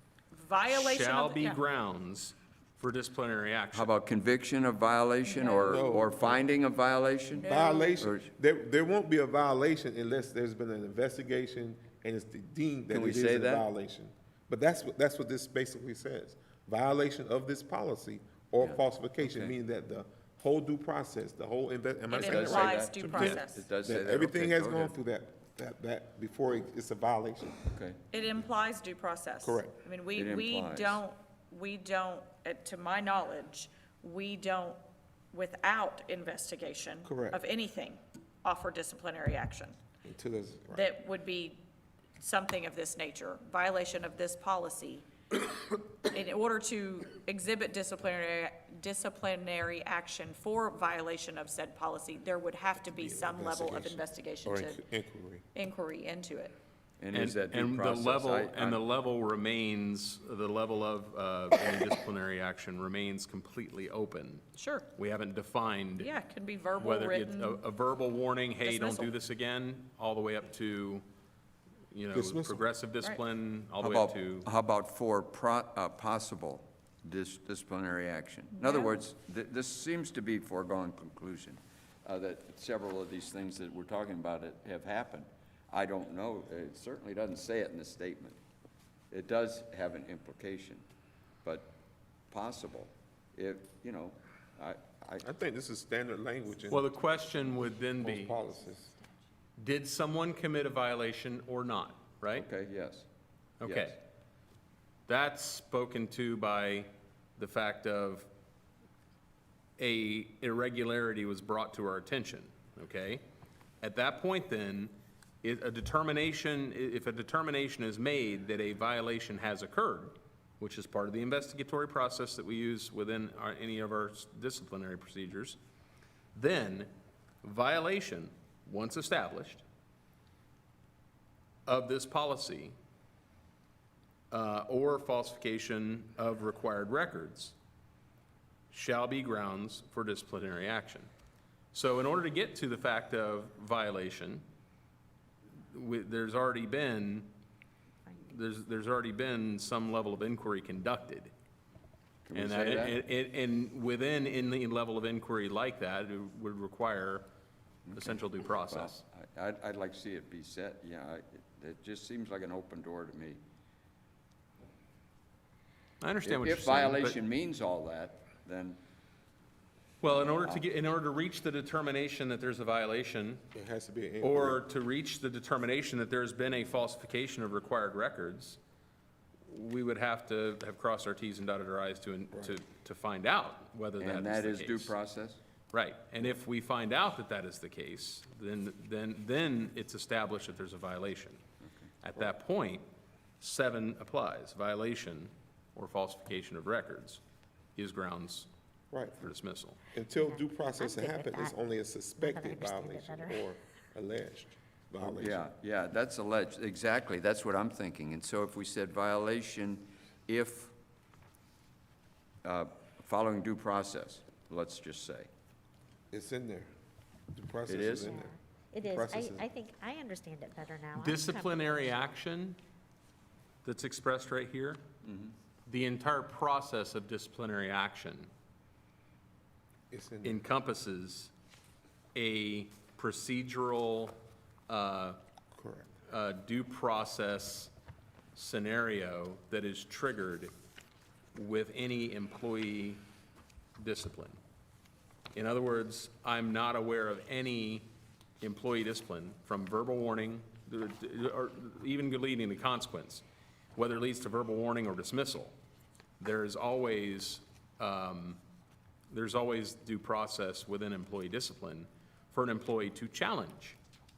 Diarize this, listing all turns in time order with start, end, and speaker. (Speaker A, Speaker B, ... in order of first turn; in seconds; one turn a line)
Speaker A: 0.3-1.6
Speaker B: 0.7-3.9
Speaker C: 3.7-8.3
Speaker A: 5.2-6.0
Speaker D: 5.6-6.4
Speaker A: 7.4-8.0
Speaker D: 7.4-27.6
Speaker C: 12.9-13.7
Speaker C: 18.6-19.5
Speaker A: 22.1-23.7
Speaker C: 22.1-25.0
Speaker C: 27.7-28.0
Speaker A: 28.1-34.8
Speaker D: 29.4-29.8
Speaker C: 30.1-31.0
Speaker A: 35.3-39.8
Speaker D: 37.0-37.4
Speaker D: 40.0-40.9
Speaker A: 40.7-41.6
Speaker A: 42.2-45.1
Speaker A: 45.7-54.8
Speaker D: 52.9-55.5
Speaker A: 55.5-56.6
Speaker C: 57.0-58.8
Speaker B: 57.1-66.1
Speaker A: 64.6-64.9
Speaker A: 66.0-67.6
Speaker B: 66.8-71.0
Speaker A: 68.6-69.1
Speaker B: 71.9-74.5
Speaker D: 72.1-72.7
Speaker C: 73.8-88.4
Speaker A: 78.6-78.9
Speaker C: 89.1-90.8
Speaker C: 91.4-91.8
Speaker C: 92.3-95.2
Speaker D: 95.2-97.0
Speaker B: 96.7-98.4
Speaker D: 98.0-98.9
Speaker B: 99.6-102.5
Speaker C: 102.3-103.1
Speaker B: 103.6-104.0
Speaker C: 103.6-103.9
Speaker B: 105.1-108.3
Speaker B: 109.8-113.2
Speaker B: 113.8-125.6
Speaker B: 126.3-126.9
Speaker B: 127.4-129.7
Speaker B: 131.7-132.8
Speaker B: 134.3-137.6
Speaker B: 138.7-141.1
Speaker B: 141.7-144.4
Speaker B: 145.7-147.3
Speaker B: 148.2-151.3
Speaker C: 152.3-153.0
Speaker B: 152.3-157.3
Speaker C: 157.9-158.2
Speaker B: 157.9-159.0
Speaker C: 158.7-163.4
Speaker B: 166.0-167.2
Speaker C: 166.2-168.8
Speaker B: 170.0-173.4
Speaker C: 170.0-170.7
Speaker D: 173.5-174.6
Speaker B: 174.2-178.6
Speaker B: 179.5-184.9
Speaker D: 182.3-182.6
Speaker C: 184.0-185.4
Speaker B: 185.7-191.4
Speaker B: 192.0-192.9
Speaker B: 193.4-197.2
Speaker B: 197.8-198.5
Speaker D: 198.9-199.3
Speaker B: 199.2-199.8
Speaker D: 199.9-205.5
Speaker E: 200.1-201.6
Speaker E: 202.2-203.5
Speaker C: 205.0-210.8
Speaker C: 212.4-215.3
Speaker D: 216.1-216.7
Speaker D: 217.3-219.4
Speaker C: 217.7-218.2
Speaker E: 218.0-222.1
Speaker B: 221.0-222.6
Speaker B: 223.6-224.8
Speaker C: 225.0-225.3
Speaker B: 225.7-228.3
Speaker D: 229.9-230.4
Speaker B: 230.2-231.3
Speaker B: 232.2-234.2
Speaker B: 234.7-235.2
Speaker D: 235.5-235.9
Speaker B: 236.1-237.7
Speaker B: 238.3-240.5
Speaker B: 241.3-243.0
Speaker B: 243.8-244.4
Speaker B: 245.3-247.9
Speaker B: 248.4-255.6
Speaker B: 256.2-258.4
Speaker B: 259.1-263.8